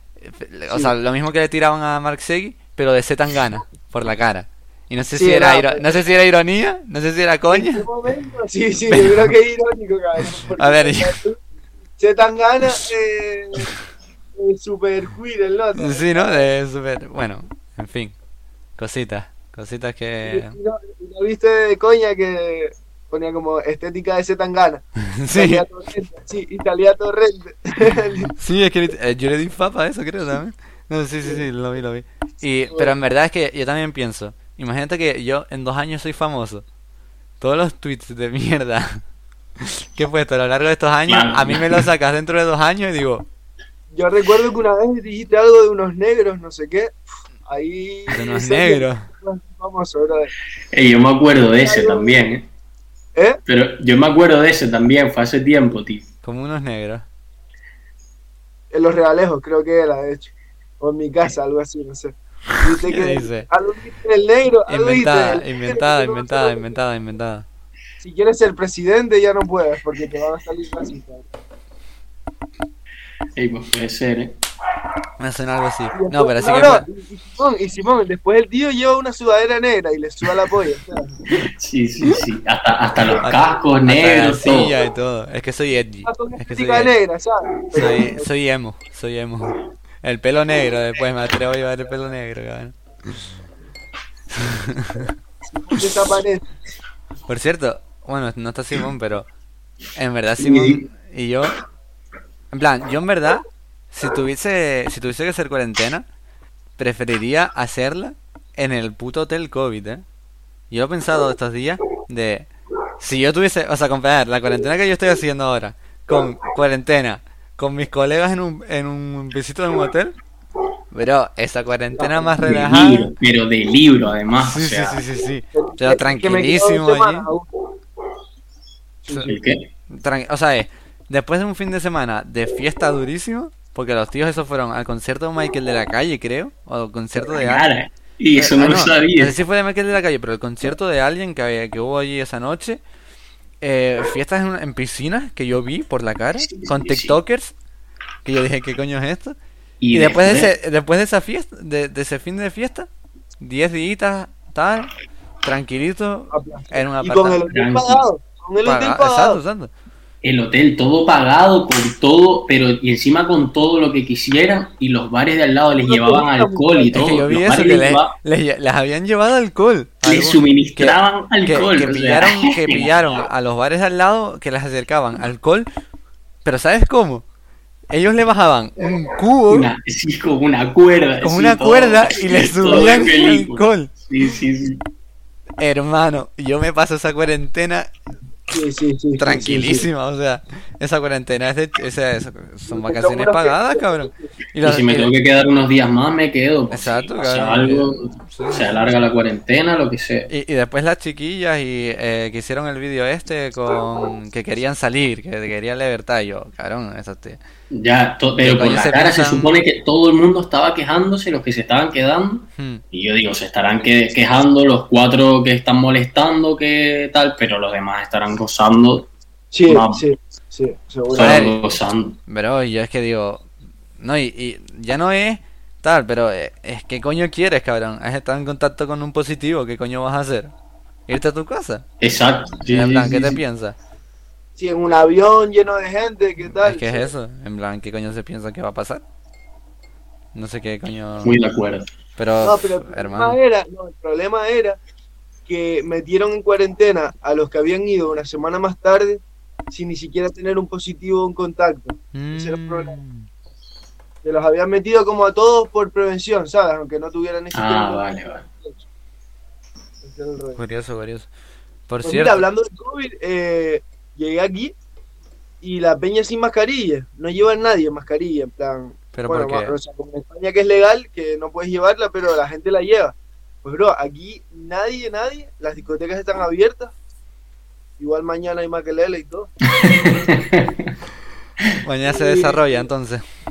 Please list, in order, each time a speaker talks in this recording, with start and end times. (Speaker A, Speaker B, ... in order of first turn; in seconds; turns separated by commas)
Speaker A: 0.2-7.9, Speaker B: 5.2-6.1, Speaker B: 7.5-11.4, Speaker A: 8.9-9.3, Speaker A: 10.4-11.2, Speaker B: 12.0-13.7, Speaker B: 14.4-16.5, Speaker A: 15.8-18.1, Speaker A: 18.8-20.6, Speaker B: 20.2-28.3, Speaker A: 25.0-25.6, Speaker A: 28.4-36.6, Speaker A: 37.4-39.0, Speaker A: 39.6-43.3, Speaker C: 41.1-41.9, Speaker B: 43.9-47.0, Speaker B: 47.5-50.3, Speaker A: 48.1-49.1, Speaker C: 50.7-52.5, Speaker B: 51.6-52.2, Speaker C: 53.5-56.1, Speaker A: 56.2-57.1, Speaker B: 58.7-66.8, Speaker A: 62.8-63.5, Speaker A: 64.7-67.5, Speaker B: 68.0-71.3, Speaker C: 73.4-74.4, Speaker A: 75.2-76.8, Speaker B: 75.9-81.2, Speaker C: 81.3-84.8, Speaker A: 83.2-86.9, Speaker B: 86.0-88.3, Speaker A: 87.8-93.3, Speaker A: 94.3-95.1, Speaker B: 95.5-96.5, Speaker A: 97.3-99.3, Speaker A: 100.0-101.6, Speaker C: 100.5-100.7, Speaker A: 102.5-106.0, Speaker A: 106.8-110.0, Speaker A: 110.7-112.5, Speaker A: 113.0-120.1, Speaker A: 120.9-123.1, Speaker B: 122.0-122.3, Speaker C: 122.4-125.0, Speaker A: 124.4-127.3, Speaker B: 125.5-127.5, Speaker B: 129.1-129.3, Speaker A: 129.1-129.3, Speaker C: 129.3-129.7, Speaker A: 129.9-137.7, Speaker C: 137.3-139.3, Speaker A: 138.4-142.8, Speaker A: 143.6-147.5, Speaker C: 146.4-147.2, Speaker A: 148.2-149.4, Speaker C: 149.8-150.5, Speaker A: 149.9-152.9, Speaker A: 153.4-154.9, Speaker A: 155.4-157.4, Speaker B: 156.3-159.4, Speaker C: 157.5-158.0, Speaker A: 158.6-159.7, Speaker C: 160.2-168.2, Speaker B: 165.8-167.0, Speaker A: 166.9-175.7, Speaker C: 170.0-173.2, Speaker A: 176.4-177.2, Speaker A: 177.9-179.7, Speaker C: 179.5-184.8, Speaker A: 181.2-183.9, Speaker A: 185.6-187.9, Speaker B: 188.5-189.9, Speaker A: 189.2-195.1, Speaker B: 192.7-194.3, Speaker C: 194.6-200.3, Speaker A: 196.7-198.9, Speaker A: 200.3-207.4, Speaker C: 207.7-219.1, Speaker A: 208.4-209.6, Speaker A: 212.6-212.8, Speaker B: 219.5-221.5, Speaker C: 219.7-220.0, Speaker C: 221.1-222.2, Speaker A: 221.2-221.6, Speaker A: 222.3-223.5, Speaker A: 224.0-230.5, Speaker A: 231.1-231.8, Speaker C: 232.0-233.4, Speaker A: 232.7-233.8, Speaker B: 234.6-237.1, Speaker A: 236.6-239.0, Speaker A: 240.3-241.4, Speaker C: 241.2-241.9, Speaker A: 242.2-243.4, Speaker B: 242.4-244.8, Speaker B: 245.5-253.0, Speaker A: 252.1-253.3, Speaker B: 254.2-258.8, Speaker C: 257.5-258.4, Speaker B: 260.0-260.6, Speaker A: 260.6-261.3, Speaker A: 261.9-262.4, Speaker B: 262.0-264.7, Speaker B: 265.6-276.9, Speaker A: 269.1-269.8, Speaker B: 278.0-279.5, Speaker C: 279.8-280.9, Speaker A: 281.8-283.2, Speaker B: 282.1-282.9